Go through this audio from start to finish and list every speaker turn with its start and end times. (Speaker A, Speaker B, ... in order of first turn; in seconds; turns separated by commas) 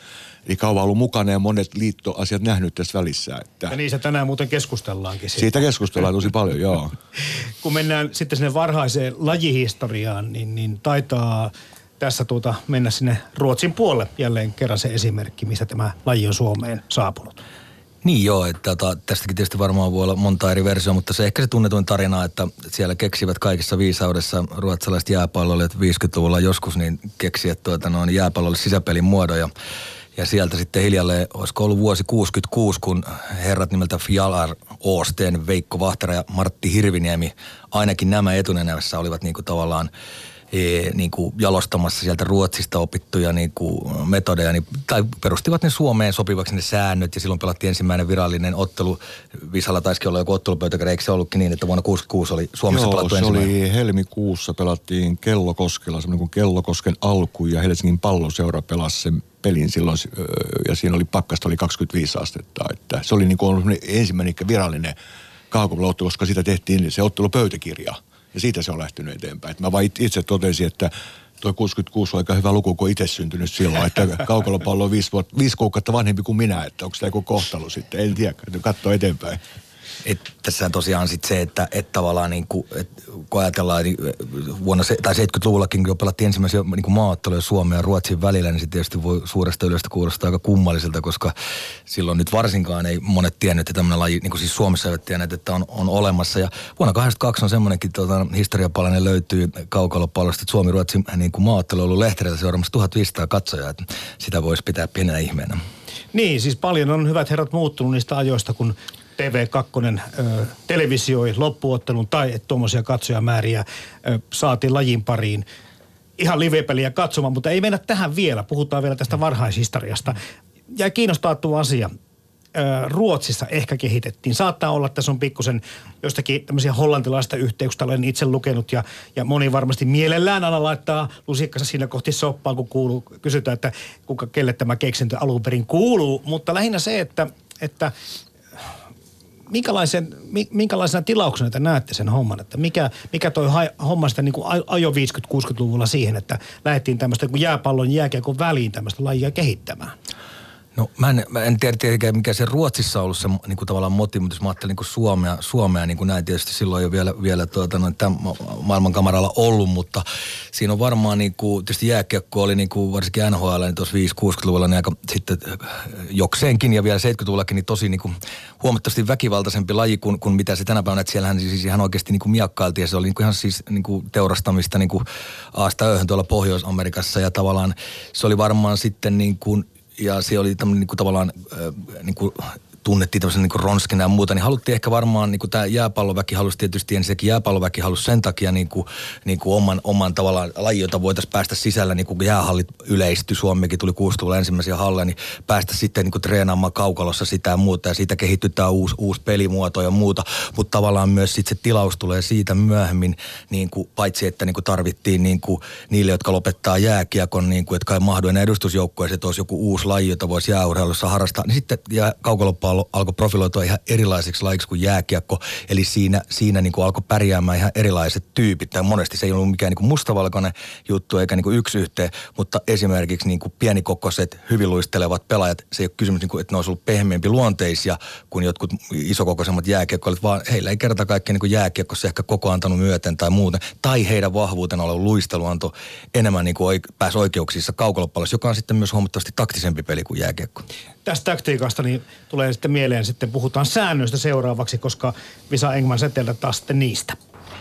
Speaker A: 0.5-3.8, Speaker B: 3.7-5.6, Speaker A: 5.3-6.9, Speaker B: 7.6-17.4, Speaker C: 18.0-29.5, Speaker C: 30.1-39.9, Speaker C: 40.5-53.5, Speaker A: 52.7-65.0, Speaker A: 65.5-79.4, Speaker C: 80.0-91.3, Speaker C: 91.9-105.6, Speaker B: 106.1-115.4, Speaker B: 116.2-120.2, Speaker B: 120.7-121.9, Speaker B: 122.5-137.9, Speaker B: 139.5-149.9, Speaker C: 150.7-240.6, Speaker B: 241.1-247.2